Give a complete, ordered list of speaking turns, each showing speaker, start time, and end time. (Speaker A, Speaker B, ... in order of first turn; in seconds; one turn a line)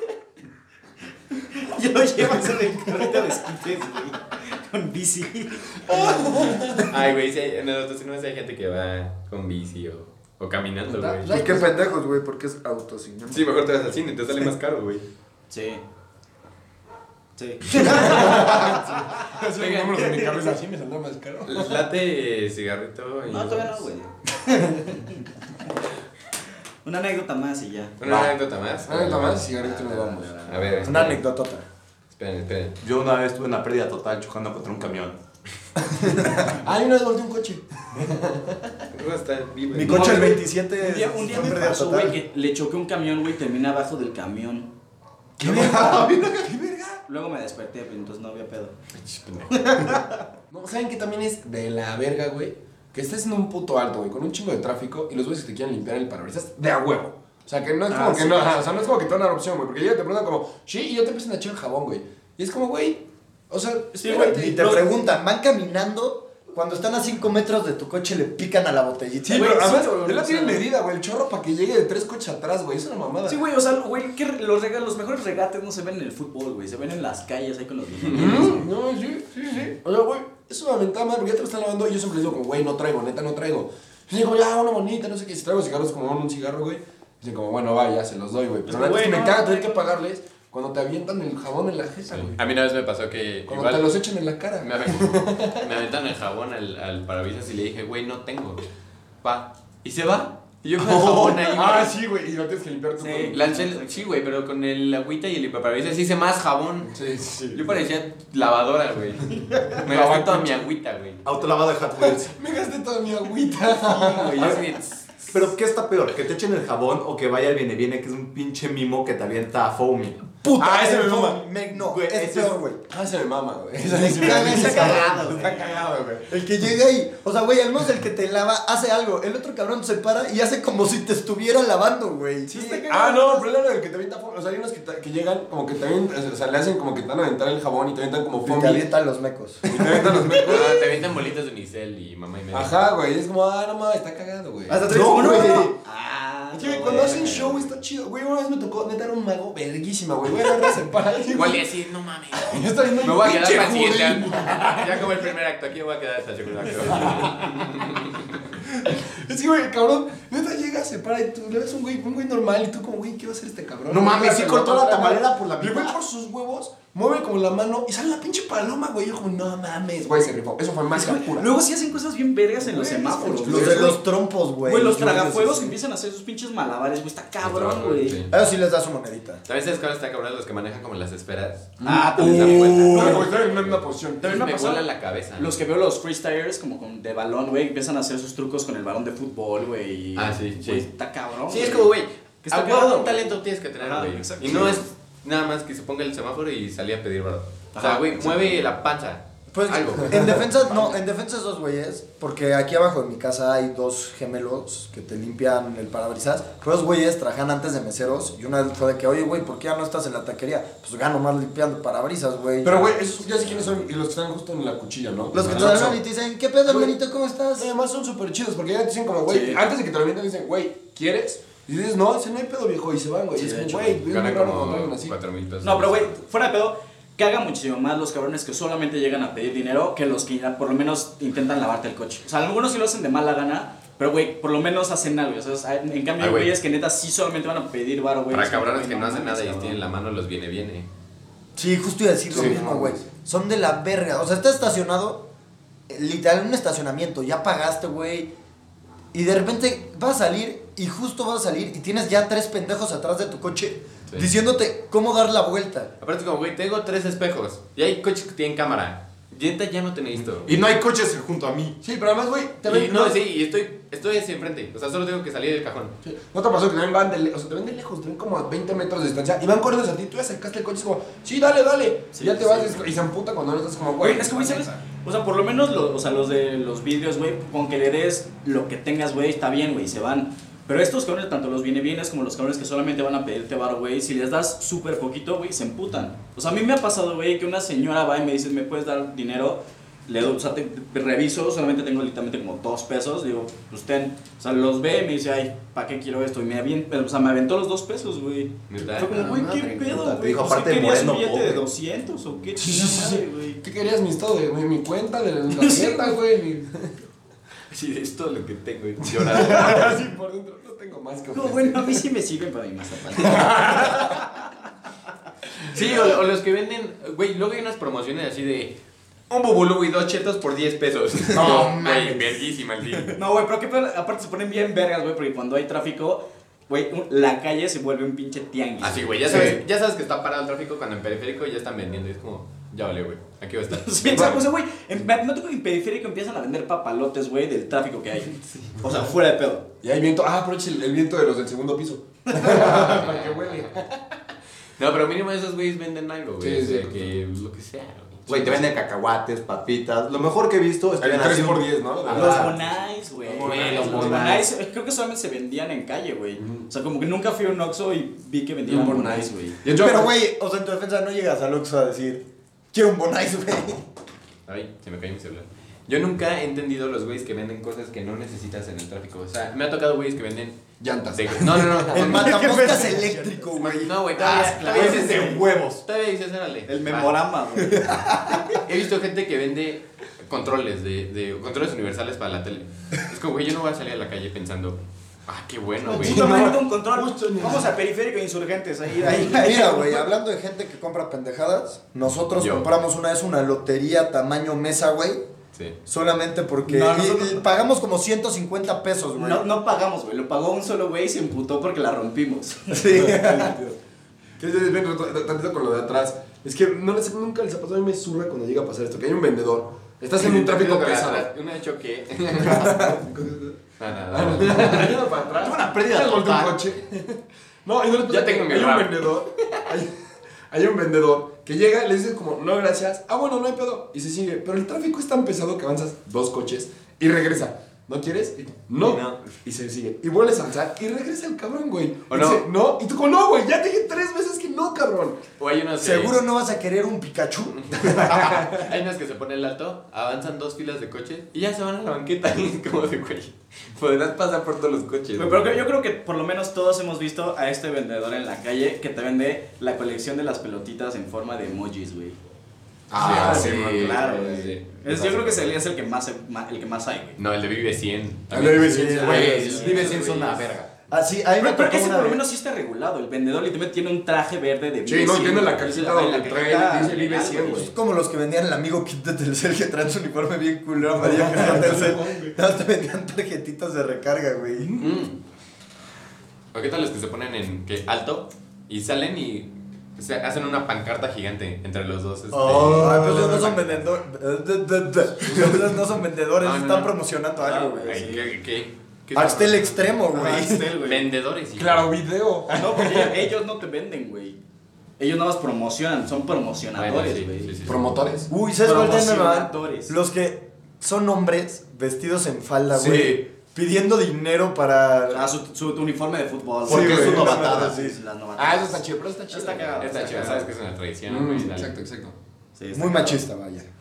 Speaker A: 1.4-6.4
Speaker B: 5.8-6.9
Speaker C: 6.9-11.3
Speaker B: 10.9-11.8
Speaker D: 11.3-13.4
Speaker C: 13.3-15.0
Speaker A: 15.5-15.8
Speaker A: 17.4-18.9
Speaker B: 17.8-21.9
Speaker C: 19.6-20.0
Speaker C: 21.4-23.8
Speaker A: 23.3-25.2
Speaker A: 26.8-28.0
Speaker C: 28.0-29.4
Speaker B: 28.9-30.4
Speaker A: 29.6-30.9
Speaker C: 30.5-31.2
Speaker D: 30.8-31.6
Speaker C: 32.1-32.8
Speaker E: 32.8-35.2
Speaker B: 35.9-38.8
Speaker C: 38.9-40.2
Speaker D: 39.7-42.1
Speaker A: 39.8-44.7
Speaker B: 45.4-47.0
Speaker E: 45.5-46.2
Speaker A: 45.5-46.0
Speaker A: 47.1-48.7
Speaker C: 48.9-50.0
Speaker A: 49.5-50.1
Speaker B: 50.5-64.8
Speaker A: 57.9-58.7
Speaker A: 64.0-64.7
Speaker D: 64.1-69.8
Speaker B: 69.2-73.4
Speaker A: 69.3-70.6
Speaker A: 73.3-78.6
Speaker B: 78.0-92.4
Speaker A: 88.7-89.9
Speaker C: 92.1-94.0
Speaker B: 93.5-95.7
Speaker C: 94.6-98.7
Speaker C: 99.2-101.9
Speaker B: 100.8-103.4
Speaker A: 103.0-104.0
Speaker C: 103.3-106.9
Speaker B: 106.9-107.8
Speaker C: 107.5-111.2
Speaker B: 109.7-110.6
Speaker E: 111.2-112.3
Speaker B: 112.1-114.6
Speaker C: 113.9-115.5
Speaker E: 114.4-114.6
Speaker E: 115.3-120.3
Speaker D: 120.4-122.8
Speaker B: 120.5-121.4
Speaker E: 121.7-122.6
Speaker B: 122.9-126.1
Speaker D: 123.8-125.5
Speaker A: 124.1-125.7
Speaker E: 124.9-126.2
Speaker D: 126.3-132.8
Speaker B: 132.5-138.9
Speaker A: 132.5-133.4
Speaker D: 138.4-140.3
Speaker B: 139.6-140.9
Speaker C: 140.3-142.7
Speaker B: 142.5-145.7
Speaker A: 144.7-147.7
Speaker D: 144.7-145.7
Speaker B: 146.5-151.7
Speaker C: 151.3-158.4
Speaker B: 152.3-155.3
Speaker B: 156.8-157.8
Speaker B: 158.5-171.5
Speaker E: 163.9-166.0
Speaker A: 170.9-174.0
Speaker B: 172.6-174.0
Speaker D: 173.4-175.8
Speaker A: 174.6-178.2
Speaker C: 177.4-178.3
Speaker D: 178.3-179.4
Speaker C: 179.4-185.5
Speaker B: 181.8-184.3
Speaker A: 181.8-183.3
Speaker A: 184.2-191.9
Speaker C: 190.2-190.8
Speaker C: 191.5-200.4
Speaker A: 192.4-194.8
Speaker A: 197.7-198.6
Speaker D: 199.5-213.0
Speaker B: 212.6-216.0
Speaker D: 215.3-217.7
Speaker C: 215.4-215.9
Speaker B: 216.7-216.9
Speaker B: 217.6-225.1
Speaker A: 219.3-219.6
Speaker A: 223.3-223.9
Speaker C: 224.0-226.2
Speaker A: 225.6-239.8
Speaker C: 236.2-236.6
Speaker C: 238.3-240.9
Speaker D: 241.6-245.2
Speaker B: 242.3-243.0
Speaker D: 245.9-248.3
Speaker D: 249.1-255.9
Speaker C: 256.0-260.6
Speaker E: 260.4-261.8
Speaker B: 261.8-263.2
Speaker C: 262.6-266.0
Speaker B: 266.0-274.8
Speaker A: 272.1-272.9
Speaker A: 274.0-303.6
Speaker C: 298.7-299.7
Speaker E: 299.0-301.6
Speaker B: 302.6-307.0
Speaker A: 305.5-306.1
Speaker C: 307.7-310.0
Speaker B: 309.0-312.0
Speaker A: 311.3-314.2
Speaker B: 313.2-314.2
Speaker C: 315.7-318.8
Speaker C: 319.3-323.2
Speaker D: 321.3-322.3
Speaker A: 323.1-329.6
Speaker C: 328.8-334.4
Speaker A: 333.7-339.7
Speaker B: 334.1-334.4
Speaker B: 339.8-344.0
Speaker C: 342.4-343.8
Speaker C: 344.8-348.6
Speaker B: 346.4-347.1
Speaker E: 348.3-352.6
Speaker B: 351.0-352.6
Speaker A: 352.1-359.6
Speaker E: 353.3-354.4
Speaker C: 353.4-354.4
Speaker B: 353.5-354.4
Speaker B: 356.4-356.6
Speaker B: 358.7-360.1
Speaker D: 359.7-363.9
Speaker C: 364.5-372.6
Speaker B: 370.8-372.1
Speaker D: 371.9-374.0
Speaker A: 371.9-373.6
Speaker C: 373.6-377.2
Speaker A: 374.2-375.4
Speaker E: 374.2-375.8
Speaker B: 374.9-375.4
Speaker A: 376.7-378.4
Speaker C: 378.5-386.5
Speaker A: 385.9-390.1
Speaker B: 385.9-387.7
Speaker D: 389.3-395.2
Speaker C: 392.4-392.7
Speaker D: 395.9-399.4
Speaker A: 396.6-397.4
Speaker A: 399.1-403.2
Speaker D: 402.7-403.6
Speaker B: 402.9-403.7
Speaker B: 404.4-411.3
Speaker C: 410.2-412.9
Speaker B: 412.2-413.6
Speaker C: 413.8-415.0
Speaker B: 414.1-419.9
Speaker E: 415.4-416.5
Speaker C: 418.1-419.7
Speaker B: 420.5-435.2
Speaker C: 428.8-429.2
Speaker C: 432.1-432.4
Speaker C: 435.4-436.2
Speaker D: 435.8-438.4
Speaker C: 437.6-445.6
Speaker A: 445.1-452.2
Speaker B: 452.9-455.5
Speaker C: 452.9-454.0
Speaker A: 453.0-457.2
Speaker C: 457.2-460.4
Speaker B: 458.3-460.2
Speaker D: 458.5-459.4
Speaker E: 459.0-460.7
Speaker A: 459.3-460.0
Speaker D: 460.9-462.2
Speaker A: 461.4-467.7
Speaker B: 464.9-467.7
Speaker D: 467.4-474.7
Speaker B: 471.0-472.4
Speaker B: 474.6-474.9
Speaker C: 474.8-475.1
Speaker C: 476.5-483.9
Speaker E: 482.3-483.4
Speaker D: 482.6-488.2
Speaker C: 486.4-487.0
Speaker A: 487.4-488.3
Speaker C: 487.8-490.0
Speaker D: 489.1-490.7
Speaker A: 490.1-491.0
Speaker C: 490.7-491.9
Speaker B: 491.5-493.3
Speaker A: 492.5-494.4
Speaker A: 495.0-497.7
Speaker C: 496.7-497.9
Speaker B: 497.6-498.3
Speaker D: 498.3-505.3
Speaker A: 498.6-499.9
Speaker A: 505.1-510.5
Speaker E: 506.6-507.8
Speaker D: 506.7-508.0
Speaker B: 508.4-510.4
Speaker C: 509.8-511.7
Speaker B: 511.1-512.2
Speaker A: 512.5-513.2
Speaker D: 512.7-513.7